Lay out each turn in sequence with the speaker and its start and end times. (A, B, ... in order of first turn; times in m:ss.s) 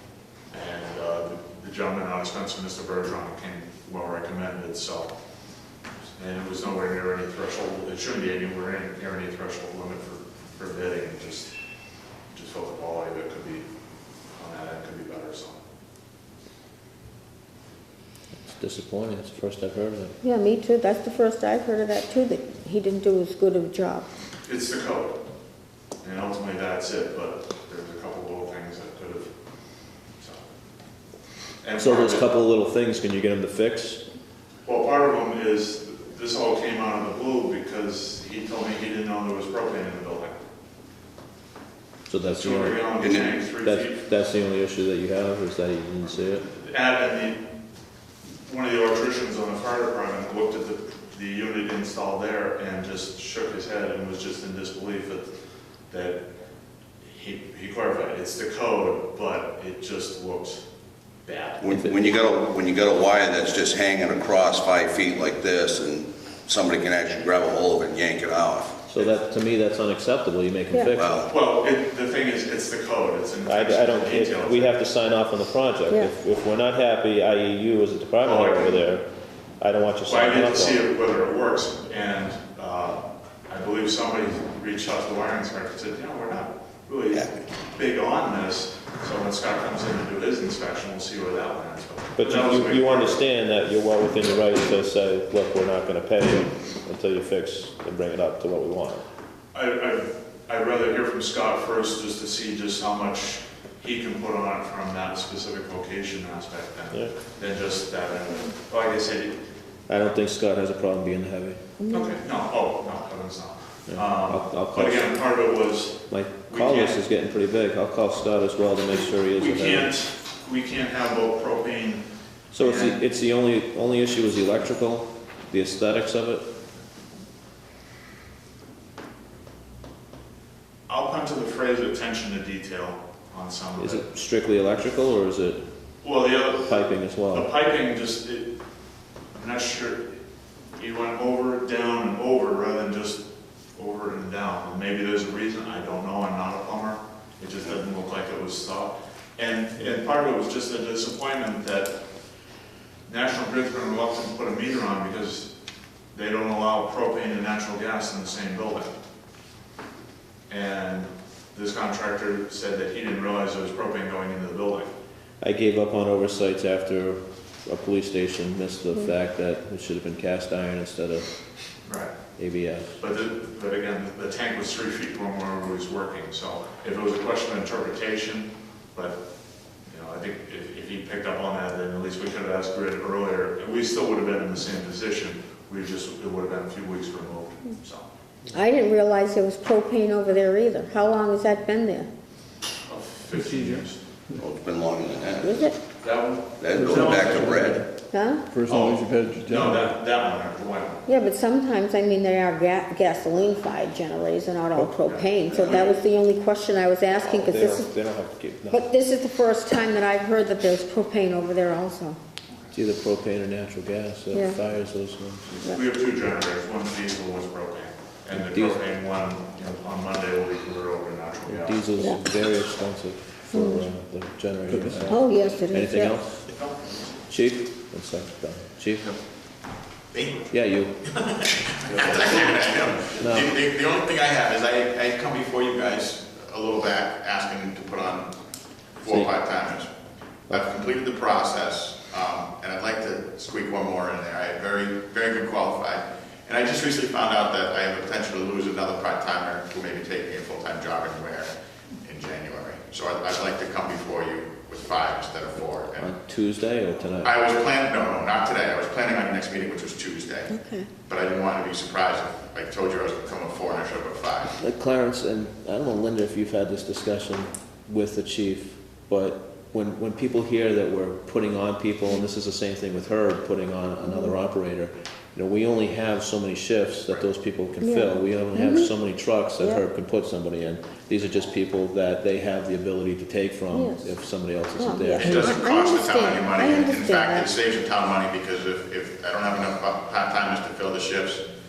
0:00.5-0:05.1 A
0:06.2-0:11.5 A
0:12.3-0:13.6 A
0:14.3-0:15.6 A
0:18.4-0:20.1 B
0:20.2-0:24.1 C
0:24.4-0:25.2 A
0:26.0-0:29.3 A
0:30.2-0:30.4 A
0:31.6-0:32.3 A
0:31.8-0:34.0 B
0:34.6-0:40.4 A
0:42.1-0:42.8 B
0:42.2-0:44.0 A
0:43.0-0:43.4 D
0:43.6-0:46.4 B
0:46.4-0:47.4 A
0:48.4-0:55.3 A
0:55.9-0:56.2 A
0:57.1-1:00.6 A
1:01.2-1:01.7 A
1:01.6-1:08.7 D
1:01.7-1:02.0 B
1:08.9-1:11.2 B
1:10.9-1:11.3 D
1:11.3-1:14.7 A
1:13.4-1:19.0 B
1:18.2-1:18.8 A
1:19.6-1:20.8 B
1:20.0-1:33.2 A
1:27.1-1:27.4 D
1:32.2-1:39.0 B
1:39.5-1:49.4 A
1:49.9-1:51.6 B
1:51.8-1:52.1 C
1:51.9-1:57.0 A
1:53.9-1:55.1 B
1:56.1-1:59.9 B
1:59.3-2:02.0 A
2:02.5-2:06.4 B
2:02.5-2:03.0 A
2:10.9-2:14.0 A
2:13.8-2:15.6 B
2:16.0-2:16.8 A
2:16.6-2:17.5 B
2:17.3-2:18.6 A
2:19.3-2:20.2 A
2:20.8-2:32.0 A
2:33.1-2:35.5 A
2:36.1-2:38.9 A
2:40.5-2:44.9 A
2:45.4-2:51.3 B
2:51.8-2:52.1 A
2:52.4-2:52.9 B
2:53.0-2:59.2 A
2:59.9-3:08.0 A
3:08.5-3:12.1 C
3:12.8-3:14.0 A
3:13.4-3:13.8 E
3:14.4-3:15.7 D
3:15.4-3:15.8 C
3:16.0-3:17.7 A
3:16.6-3:17.9 D
3:16.7-3:17.9 E
3:18.1-3:18.4 C
3:18.5-3:19.9 E
3:18.6-3:21.1 A
3:21.0-3:27.9 C
3:25.0-3:26.0 A
3:27.2-3:28.9 B
3:28.7-3:32.2 C
3:32.7-3:35.6 B
3:34.3-3:34.6 C
3:35.7-3:41.9 A
3:38.3-3:38.8 B
3:41.4-3:46.5 B
3:43.5-3:43.8 C
3:44.7-3:45.2 E
3:45.1-3:46.2 C
3:47.3-3:49.1 B
3:50.1-3:50.4 F
3:50.5-3:51.0 B
3:51.2-3:58.4 F
3:51.8-3:52.6 A
3:53.1-3:53.5 B
3:59.0-3:59.9 F
3:59.0-3:59.3 B
4:00.5-4:11.5 F
4:12.0-4:16.1 F
4:16.0-4:17.3 B
4:17.2-4:20.5 F
4:20.5-4:20.9 C
4:21.0-4:24.5 F
4:24.6-4:45.6 B
4:34.0-4:34.3 C
4:37.8-4:38.9 C
4:43.7-4:44.1 C
4:44.8-4:47.5 C
4:45.2-4:51.4 F